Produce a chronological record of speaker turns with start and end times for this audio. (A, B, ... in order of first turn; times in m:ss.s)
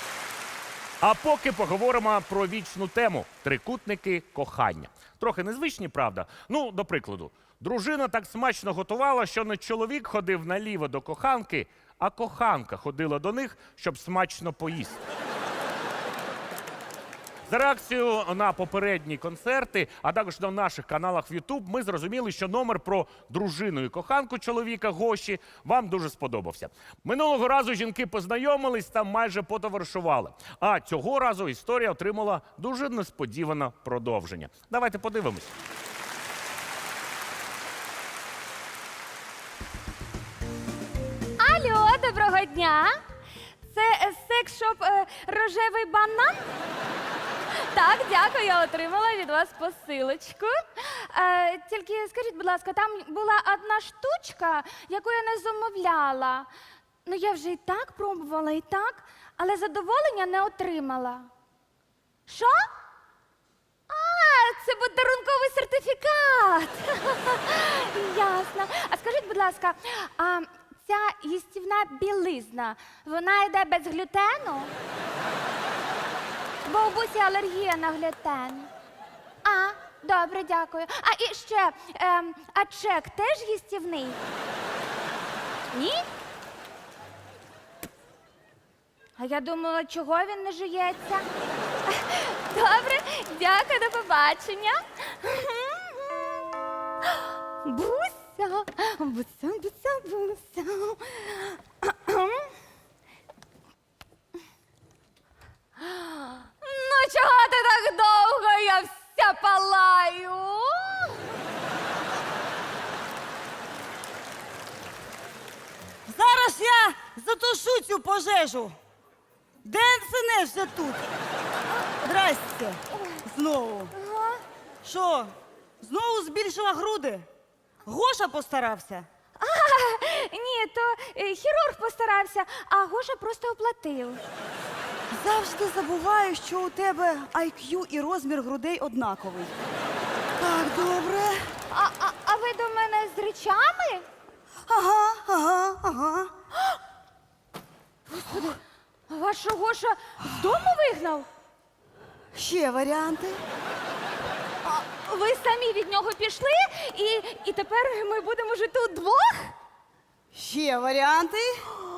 0:01.0-0:15.0 A
0:17.5-0:35.5 A
0:41.4-0:43.0 B
0:43.7-0:46.5 B
0:47.7-0:56.5 B
0:57.0-1:01.3 B
1:02.3-1:02.7 B
1:03.9-1:14.7 B
1:16.6-1:18.7 B
1:19.4-1:24.2 B
1:25.7-1:26.1 B
1:29.2-1:31.3 B
1:31.9-1:36.3 B
1:37.6-1:42.5 B
1:45.8-1:51.2 B
1:56.1-1:58.8 C
1:59.6-2:01.0 C
2:02.0-2:03.9 C
2:04.0-2:04.4 B
2:04.8-2:07.3 C
2:07.9-2:09.1 C
2:09.4-2:14.2 B
2:15.1-2:19.5 C
2:20.4-2:21.5 C
2:21.7-2:24.0 B
2:24.7-2:26.3 C
2:28.1-2:31.3 B
2:32.3-2:33.4 C
2:34.6-2:39.6 B
2:40.3-2:41.5 C